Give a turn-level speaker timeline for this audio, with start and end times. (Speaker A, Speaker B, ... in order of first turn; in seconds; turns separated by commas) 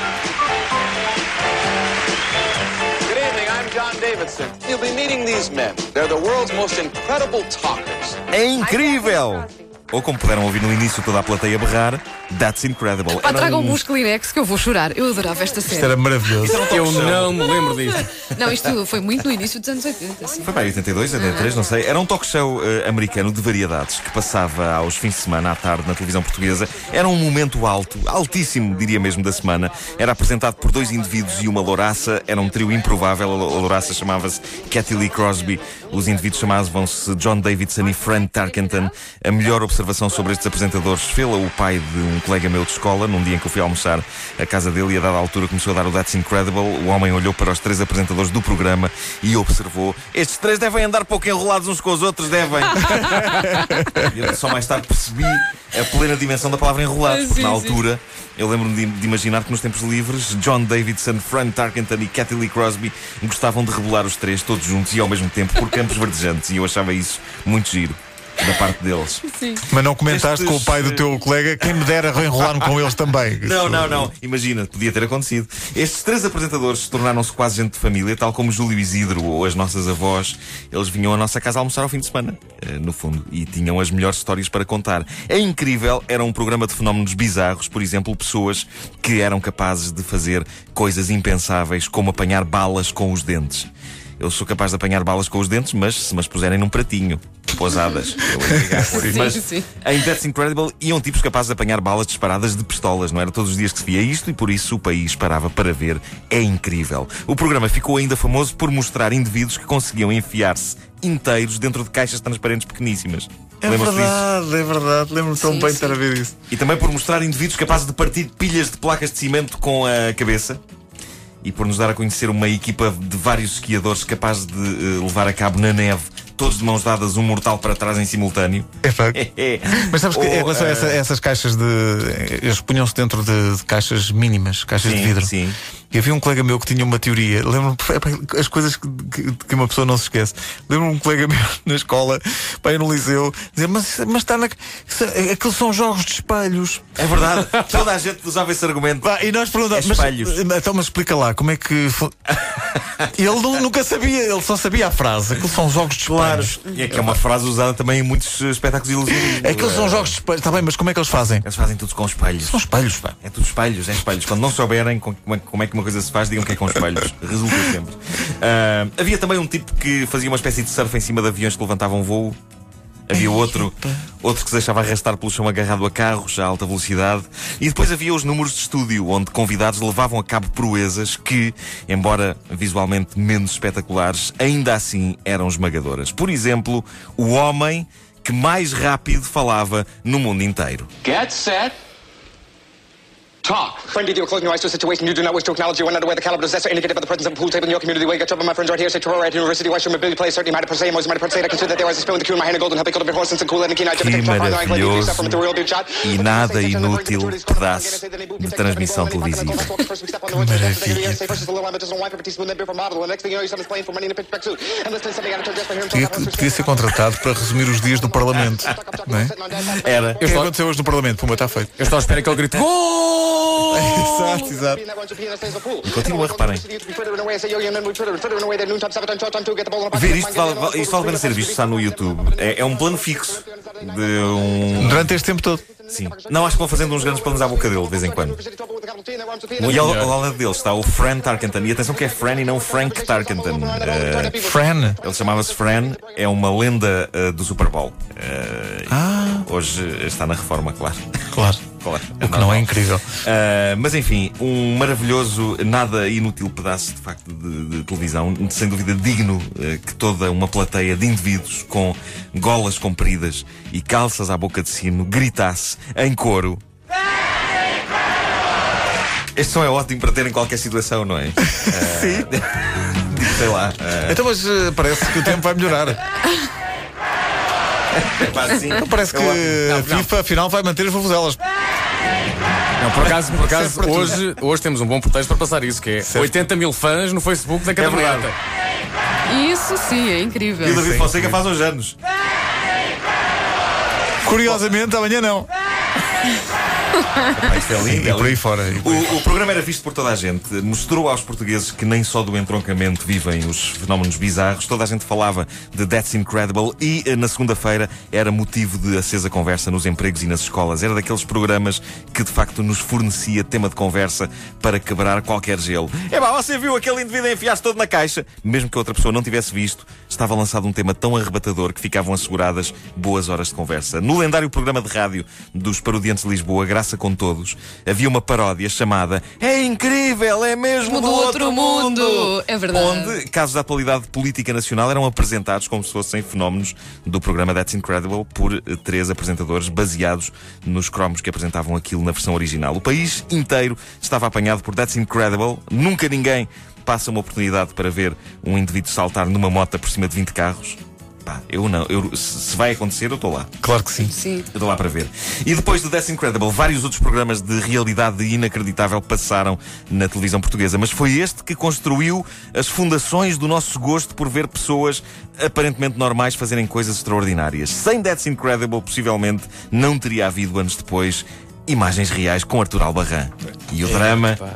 Speaker A: 3.1-8.2, Speaker B: 8.3-13.8, Speaker C: 13.2-15.9, Speaker D: 15.7-16.6, Speaker B: 16.4-17.5, Speaker E: 16.6-18.0, Speaker C: 18.0-20.5, Speaker B: 20.4-53.4, Speaker C: 21.1-21.5, Speaker D: 53.0-54.0, Speaker B: 54.0-69.3, Speaker C: 57.0-57.8, Speaker C: 69.3-69.6, Speaker D: 69.7-74.1, Speaker B: 70.1-71.1, Speaker B: 72.4-72.7, Speaker B: 73.4-93.7, Speaker B: 94.2-114.2, Speaker C: 98.9-99.7, Speaker D: 113.6-116.3, Speaker C: 115.4-116.0, Speaker B: 116.5-120.6, Speaker B: 121.4-131.0, Speaker D: 128.8-129.2, Speaker D: 129.8-135.3, Speaker B: 134.8-135.6, Speaker D: 135.9-147.0, Speaker B: 147.0-149.1, Speaker D: 149.0-152.2, Speaker B: 149.7-150.4, Speaker D: 153.1-157.1, Speaker B: 156.1-160.2, Speaker D: 159.1-161.4, Speaker B: 161.4-162.7, Speaker D: 162.5-163.1, Speaker B: 163.2-172.4, Speaker B: 173.1-190.9, Speaker D: 173.1-174.0, Speaker A: 191.0-191.8, Speaker A: 193.4-193.8, Speaker F: 193.8-216.9, Speaker B: 203.9-205.4, Speaker B: 206.0-209.8, Speaker D: 210.3-211.4, Speaker D: 215.9-219.3, Speaker F: 217.7-220.1, Speaker B: 219.7-220.2, Speaker E: 220.2-220.5, Speaker D: 220.2-221.7, Speaker E: 221.8-223.8, Speaker D: 223.7-224.8, Speaker F: 224.0-239.9, Speaker B: 225.8-226.7, Speaker B: 229.9-235.1, Speaker D: 234.8-235.6, Speaker B: 235.9-238.4, Speaker E: 239.6-240.1, Speaker B: 239.7-244.5, Speaker F: 241.9-246.2, Speaker D: 244.4-245.0, Speaker B: 245.0-251.0, Speaker D: 248.9-249.5, Speaker D: 251.3-251.6, Speaker B: 251.8-252.7, Speaker D: 252.2-253.1, Speaker B: 253.2-266.6, Speaker B: 269.4-274.2, Speaker D: 271.7-272.3, Speaker D: 274.1-276.0, Speaker B: 277.9-279.7, Speaker D: 278.8-281.4, Speaker E: 279.7-280.1, Speaker D: 282.8-284.2, Speaker E: 282.8-288.4, Speaker D: 286.1-286.3, Speaker B: 287.8-288.3, Speaker C: 289.3-290.8, Speaker B: 290.6-291.9, Speaker D: 290.6-291.4, Speaker D: 294.2-295.5, Speaker B: 297.3-353.5, Speaker D: 297.8-299.2, Speaker C: 330.8-333.2, Speaker D: 353.6-354.1, Speaker C: 354.0-354.5, Speaker B: 354.5-374.4